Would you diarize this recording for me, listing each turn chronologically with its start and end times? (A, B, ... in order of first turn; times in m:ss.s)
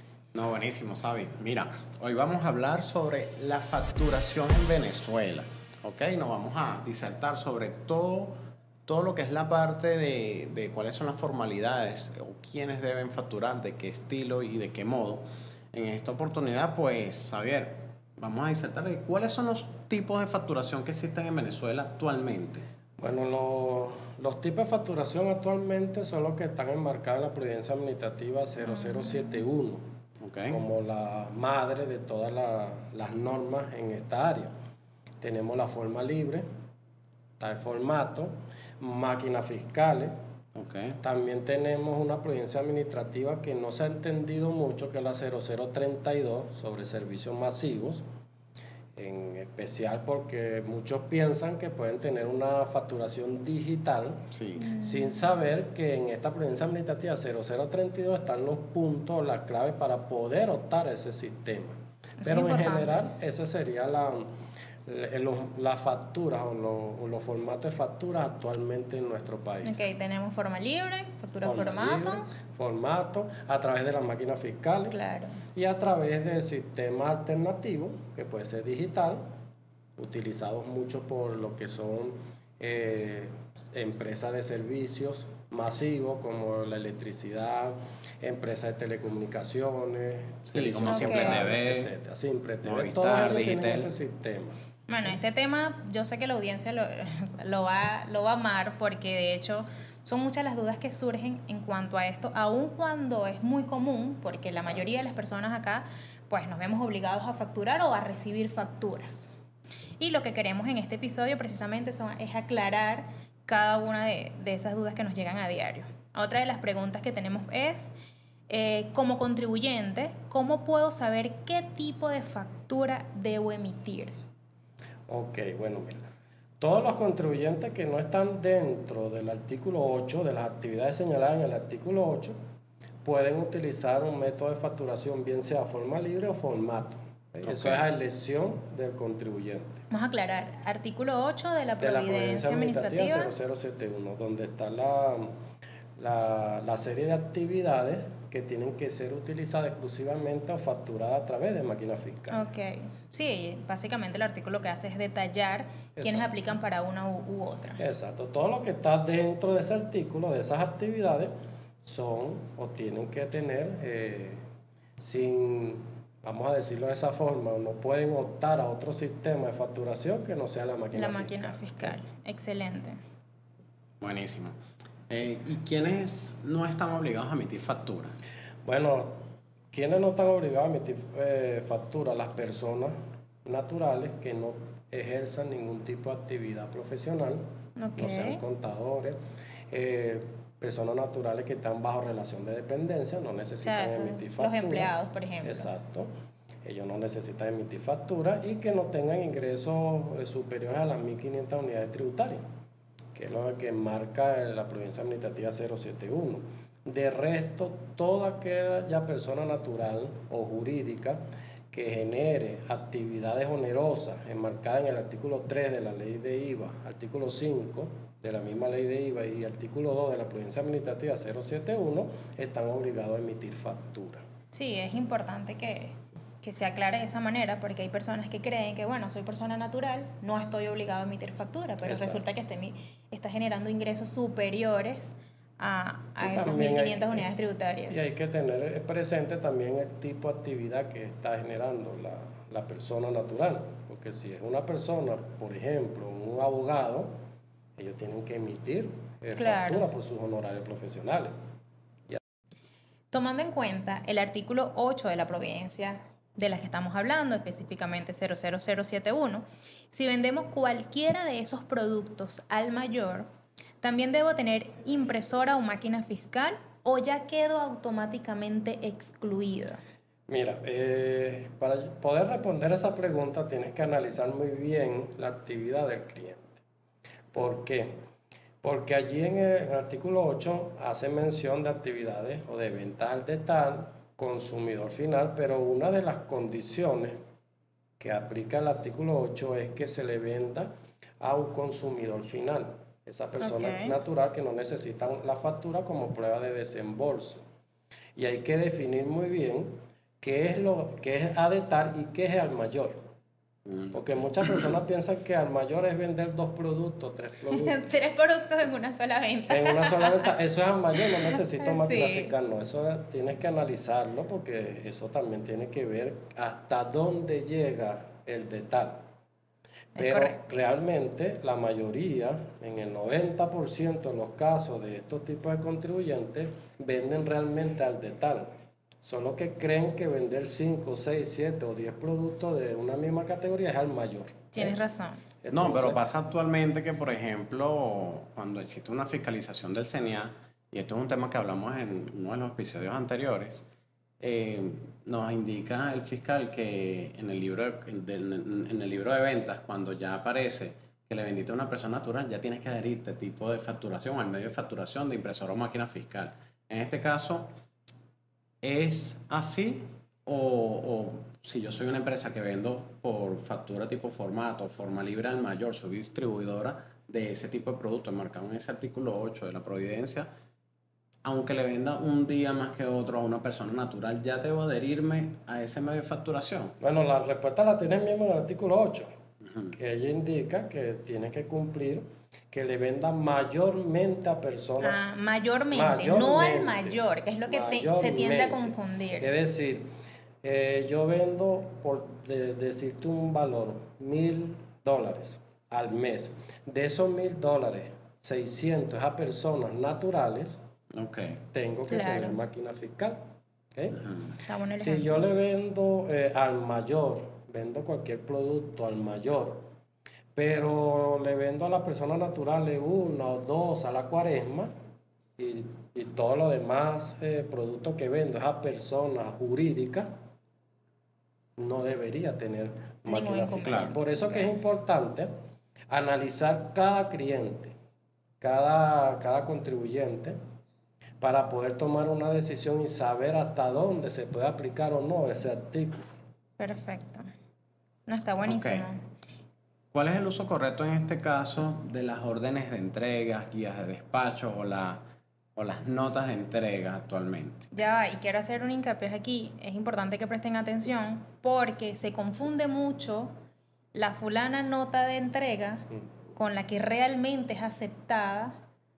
0:00.3-0:22.6 A
0:23.0-0:29.9 B
0:28.8-0:29.3 C
0:30.2-0:30.6 A
0:30.5-0:34.5 B
0:35.2-0:36.5 B
0:37.4-0:40.1 B
0:40.6-0:41.0 A
0:41.0-0:48.0 B
0:49.0-1:04.3 B
0:54.3-0:54.6 A
0:54.6-0:55.3 C
1:02.2-1:03.1 C
1:04.9-1:09.9 B
1:09.6-1:12.3 C
1:11.4-1:15.0 B
1:14.9-1:15.4 C
1:15.5-1:19.2 B
1:20.0-1:34.6 B
1:30.5-1:31.9 A
1:30.8-1:31.5 C
1:32.6-1:33.9 A
1:34.9-1:49.3 C
1:50.0-1:57.9 C
1:58.5-2:04.1 C
2:05.1-2:06.1 B
2:06.6-2:12.4 B
2:13.0-2:19.8 B
2:17.4-2:17.8 A
2:19.9-2:23.3 C
2:21.8-2:25.4 B
2:26.0-2:32.4 B
2:32.3-2:37.8 C
2:36.0-2:36.3 B
2:37.8-2:41.3 B
2:41.8-2:44.4 B
2:45.0-2:52.0 B
2:50.9-2:53.0 C
2:54.0-2:54.6 A
2:55.1-2:58.2 A
2:58.6-2:59.2 B
2:59.7-3:07.4 B
3:07.8-3:08.4 C
3:08.0-3:09.2 B
3:09.7-3:16.1 B
3:13.6-3:15.7 C
3:16.6-3:22.5 B
3:23.1-3:44.2 B
3:44.5-3:58.0 C
3:51.8-3:52.2 B
3:56.2-3:57.3 B
3:57.9-4:07.1 B
4:07.8-4:11.3 B
4:09.4-4:09.9 C
4:13.1-4:23.3 C
4:23.8-4:29.8 C
4:30.3-4:36.6 B
4:37.3-4:38.0 B
4:38.6-4:47.2 B
4:48.0-4:57.4 B
4:53.4-4:54.0 C
4:58.2-5:03.0 B
5:03.7-5:04.0 A
5:03.9-5:07.8 B
5:07.5-5:10.3 C
5:09.5-5:19.0 B
5:11.3-5:12.3 C
5:20.0-5:20.4 C
5:20.0-5:28.5 B
5:29.0-5:34.8 B
5:34.5-5:35.2 C
5:35.4-5:36.0 B
5:35.5-5:43.7 A
5:44.2-5:57.5 A
5:58.6-6:10.3 A
6:11.2-6:16.8 A
6:16.8-6:19.1 B
6:19.4-6:19.8 A
6:19.7-6:25.0 B
6:24.8-6:29.3 C
6:25.7-6:29.9 B
6:30.4-6:40.6 B
6:40.9-6:41.4 A
6:41.5-6:43.2 B
6:41.9-6:42.4 C
6:44.0-6:44.4 A
6:44.4-6:45.2 C
6:44.8-6:49.7 B
6:50.4-6:54.7 B
6:55.4-7:00.1 B
7:01.6-7:05.3 B
7:03.0-7:04.5 C
7:03.6-7:03.9 A
7:05.9-7:07.8 B
7:08.4-7:10.4 B
7:11.2-7:16.0 B
7:16.6-7:17.3 C
7:18.1-7:19.0 C
7:18.4-7:18.9 A
7:19.9-7:25.0 A
7:25.6-7:27.7 A
7:27.7-7:33.4 C
7:33.9-7:38.6 C